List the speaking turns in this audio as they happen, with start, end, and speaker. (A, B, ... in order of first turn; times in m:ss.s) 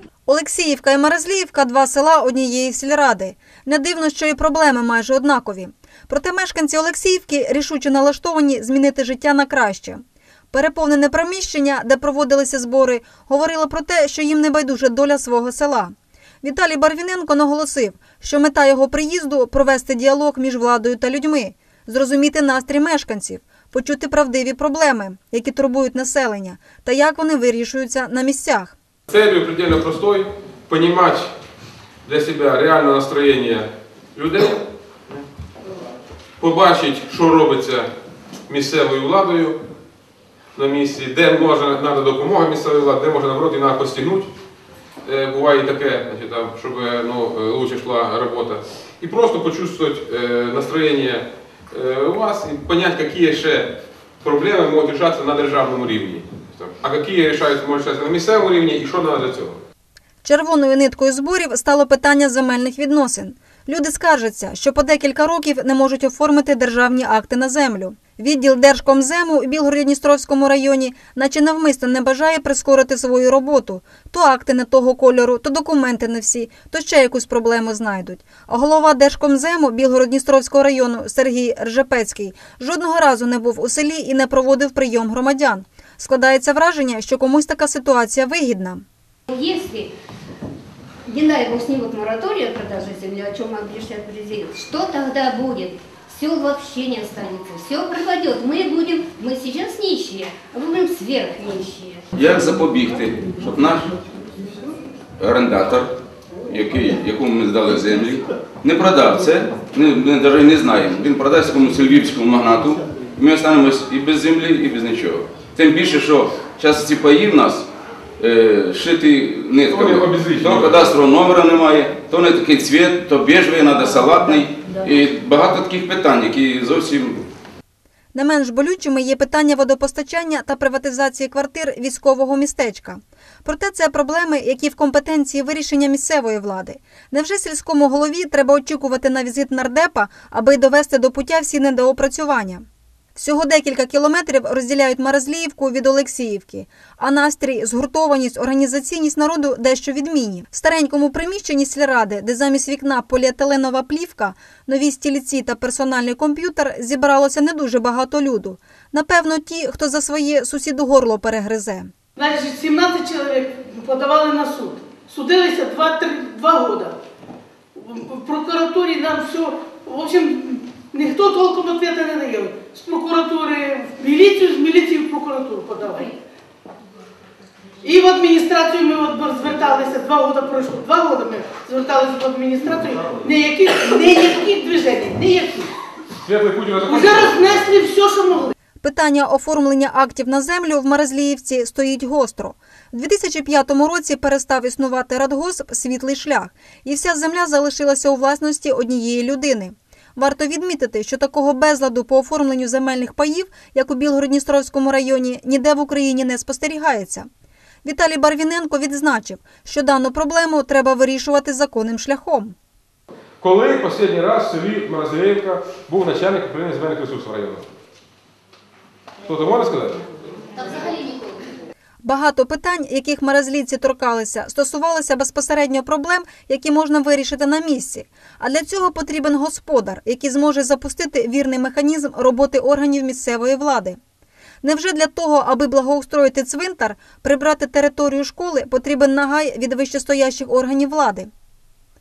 0:00.3-0:28.8 A
0:29.1-0:31.3 B
0:32.0-0:34.6 B
0:36.4-0:37.9 B
0:38.5-0:39.6 B
0:40.5-0:44.3 B
0:45.0-0:53.7 B
0:54.2-0:59.6 B
1:00.2-1:28.8 A
1:29.3-1:29.9 C
1:31.1-1:42.0 C
1:42.1-1:43.9 D
1:45.2-1:45.9 D
1:46.5-1:57.7 D
1:58.2-2:07.2 D
1:59.7-2:00.9 B
2:08.1-2:41.9 A
2:42.2-2:47.0 E
2:47.7-2:56.2 E
2:57.8-3:05.7 E
3:06.2-3:07.6 B
3:06.8-3:08.5 E
3:08.8-3:27.3 A
3:27.8-3:32.5 A
3:33.4-3:37.7 B
3:39.2-3:40.0 B
3:41.0-3:41.3 C
3:42.0-3:54.0 A
3:54.6-4:01.3 A